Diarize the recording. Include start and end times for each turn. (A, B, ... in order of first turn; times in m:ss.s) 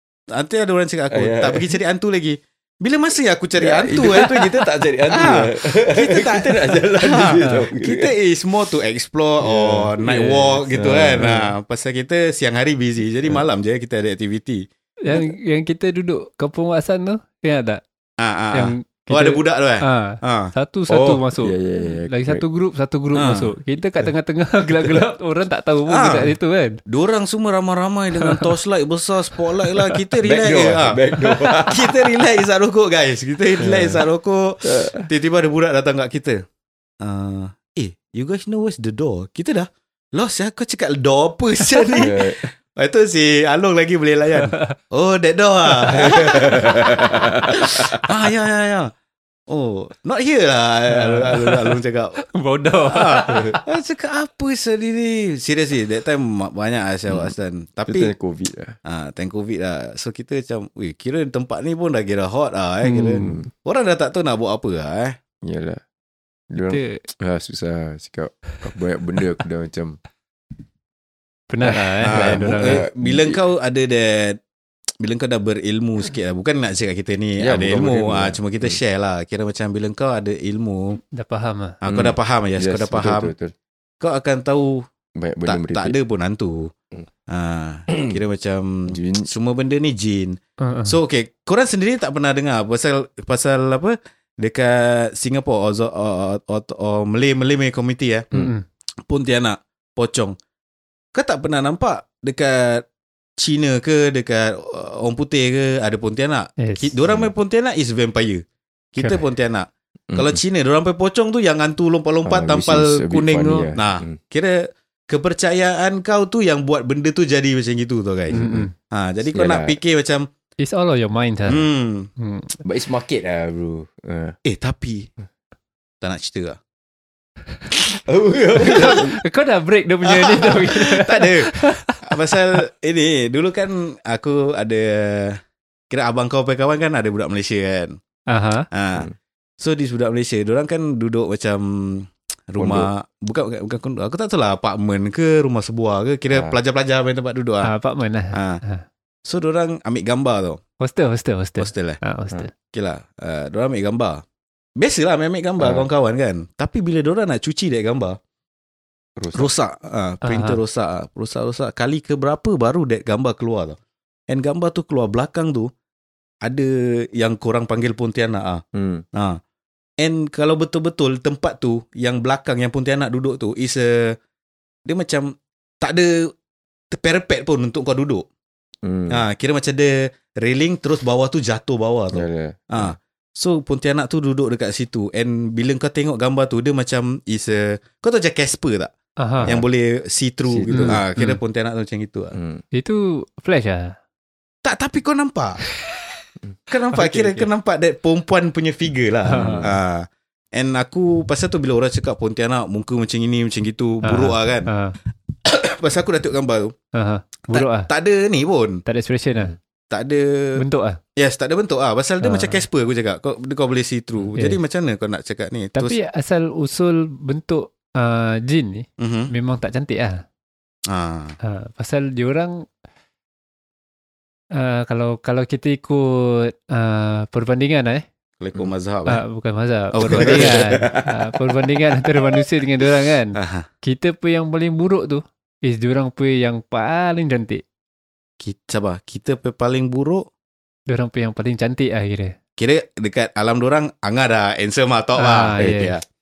0:00.3-0:14.6 A
0:01.1-0:01.7 B
0:03.6-0:08.1 B
0:07.4-0:07.7 C
0:09.4-0:11.4 B
0:11.2-0:11.5 C
0:15.0-0:17.8 C
0:18.2-0:20.5 A
0:18.5-0:21.6 C
0:20.9-0:22.4 B
0:22.1-0:26.8 C
0:23.1-0:23.5 A
0:25.9-0:26.3 A
0:26.9-0:36.4 A
0:29.6-0:29.9 C
0:30.2-0:32.1 B
0:33.6-0:34.0 B
0:34.6-0:35.0 B
0:37.0-0:48.9 A
0:42.0-0:42.4 B
0:45.9-0:48.0 B
0:49.5-0:52.2 A
0:51.0-0:53.6 C
0:52.8-0:58.1 A
0:57.1-0:57.3 B
0:57.8-0:58.8 B
0:58.8-1:05.2 A
1:02.9-1:03.4 B
1:03.0-1:03.3 C
1:05.4-1:05.8 B
1:06.5-1:10.0 B
1:06.7-1:07.0 C
1:11.5-1:12.8 C
1:11.6-1:13.4 B
1:12.0-1:14.4 A
1:15.0-1:21.0 A
1:17.4-1:18.8 B
1:21.1-1:21.8 C
1:21.8-1:23.3 A
1:21.8-1:23.5 B
1:24.0-1:24.8 A
1:25.2-1:26.0 B
1:25.4-1:26.7 A
1:27.3-1:38.3 A
1:28.9-1:29.3 B
1:30.6-1:30.9 C
1:38.3-1:38.6 C
1:39.1-1:40.3 A
1:41.1-1:42.8 A
1:43.4-1:48.4 A
1:46.6-1:46.9 C
1:47.1-1:47.3 B
1:48.9-1:54.6 A
1:50.1-1:50.4 B
1:52.2-1:54.2 B
1:55.1-2:00.2 A
1:58.3-1:58.7 B
1:58.3-1:58.7 C
1:59.3-1:59.8 B
2:00.6-2:01.7 C
2:01.5-2:02.1 A
2:02.2-2:02.6 C
2:02.6-2:04.4 B
2:04.4-2:05.1 A
2:06.0-2:06.6 A
2:08.0-2:09.2 B
2:08.7-2:12.0 C
2:08.7-2:09.0 A
2:10.0-2:18.0 A
2:18.3-2:18.6 C
2:18.7-2:19.1 A
2:19.6-2:27.7 A
2:22.6-2:22.9 B
2:26.3-2:26.6 B
2:27.6-2:28.8 C
2:28.3-2:28.6 A
2:29.2-2:30.6 A
2:30.8-2:32.5 C
2:31.6-2:32.0 A
2:32.7-2:34.2 A
2:34.8-2:38.2 A
2:35.6-2:35.9 B
2:39.2-2:39.5 B
2:39.3-2:43.8 A
2:40.2-2:40.6 C
2:44.3-2:45.7 A
2:46.4-2:48.6 A
2:48.7-2:49.0 B
2:50.0-2:54.1 A
2:54.8-2:56.3 A
2:56.9-2:58.2 A
2:58.8-2:59.2 B
2:59.1-3:08.9 A
3:02.1-3:03.0 B
3:09.2-3:09.6 C
3:09.4-3:12.3 A
3:10.5-3:11.0 B
3:10.7-3:11.4 C
3:12.3-3:12.6 B
3:12.7-3:13.9 C
3:14.6-3:15.6 A
3:16.7-3:24.7 A
3:16.9-3:17.5 C
3:19.3-3:19.7 C
3:19.3-3:19.7 B
3:24.0-3:25.0 C
3:25.4-3:26.7 A
3:26.9-3:27.9 C
3:27.5-3:28.8 A
3:28.8-3:29.5 C
3:29.9-3:30.6 A
3:30.6-3:31.0 C
3:31.2-3:36.0 A
3:32.2-3:32.6 C
3:34.3-3:34.6 C
3:35.8-3:40.2 C
3:39.0-3:39.3 A
3:40.9-3:41.3 A
3:41.4-3:42.5 C
3:44.5-3:48.0 C
3:48.4-3:49.2 A
3:49.0-3:57.6 C
3:49.9-3:50.9 A
3:50.0-3:51.2 B
3:53.3-3:53.7 A
3:58.4-4:00.2 A
4:00.9-4:02.3 C
4:02.6-4:06.0 A
4:05.2-4:06.0 C